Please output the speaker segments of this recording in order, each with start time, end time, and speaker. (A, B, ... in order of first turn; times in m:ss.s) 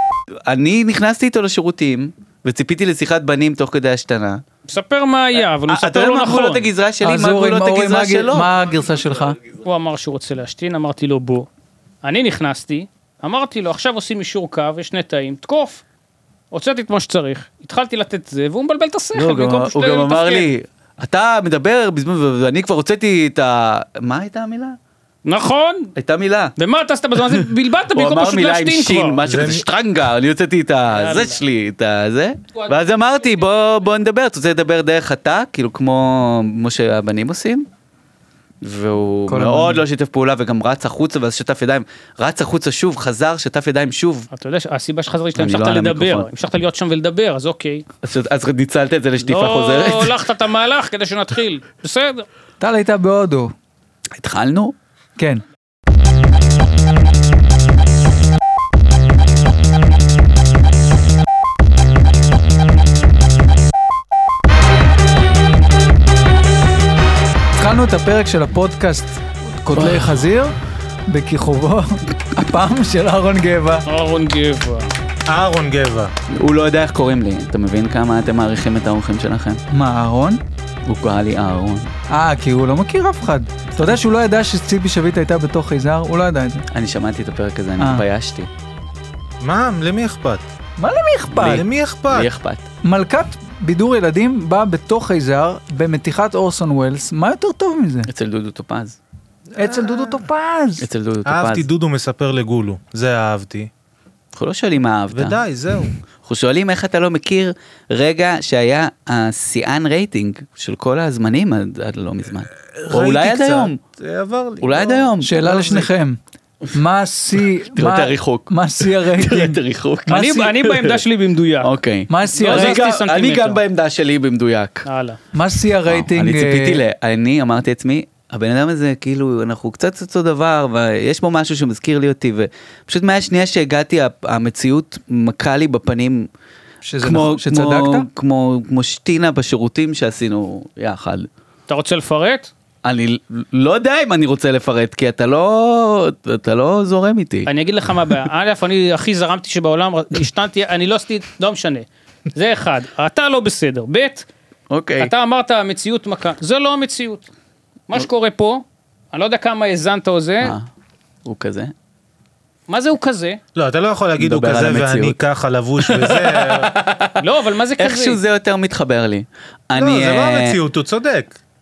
0:00.4-0:04.4 A
0:04.7-0:06.7 B
0:05.3-0:08.5 A
0:07.0-0:09.4 C
0:09.6-0:11.5 B
0:12.0-0:15.8 B
0:16.5-0:20.5 B
0:19.1-0:24.8 A
0:25.2-0:25.9 B
0:26.0-0:26.5 A
0:26.6-0:29.2 B
0:27.2-0:37.7 A
0:29.2-0:29.6 D
0:30.9-0:31.4 B
0:38.6-0:44.3 A
0:39.3-0:39.8 C
0:44.3-0:47.8 B
0:45.4-0:46.3 A
0:48.0-0:50.1 A
0:49.2-0:52.2 B
0:52.6-0:53.5 C
0:54.1-0:54.7 A
1:07.6-1:10.5 C
1:09.7-1:10.2 A
1:11.1-1:13.8 C
1:13.8-1:14.9 B
1:15.3-1:16.1 D
1:16.3-1:19.6 A
1:19.7-1:20.4 C
1:20.8-1:21.9 A
1:22.1-1:26.6 C
1:26.7-1:28.5 A
1:27.8-1:28.0 C
1:29.4-1:30.4 D
1:30.8-1:31.6 C
1:31.3-1:32.7 A
1:31.4-1:32.3 D
1:32.8-1:38.1 C
1:38.1-1:39.0 A
1:39.5-1:40.9 C
1:39.6-1:40.2 D
1:40.8-1:41.7 A
1:41.2-1:43.7 D
1:44.3-1:45.4 A
1:45.1-1:45.9 D
1:46.2-1:53.8 A
1:52.7-1:55.1 D
1:54.6-1:55.8 A
1:55.2-1:56.2 C
1:56.7-2:00.5 C
1:57.7-2:01.0 A
2:00.1-2:01.8 B
2:01.6-2:04.9 A
2:02.1-2:02.8 C
2:02.3-2:03.6 B
2:04.8-2:05.2 B
2:05.3-2:06.8 C
2:05.9-2:16.3 A
2:16.8-2:18.1 C
2:17.0-2:21.3 A
2:21.7-2:22.5 B
2:22.8-2:27.5 A
2:27.4-2:34.2 B
2:34.7-2:35.1 A
2:35.0-2:37.2 B
2:37.9-2:40.5 B
2:40.4-2:40.7 A
2:41.2-2:41.7 A
2:42.7-2:43.4 B
2:43.5-2:46.7 D
2:44.2-2:45.2 A
2:45.8-2:47.2 A
2:47.2-2:48.2 B
2:47.8-2:50.6 A
2:49.8-2:51.4 D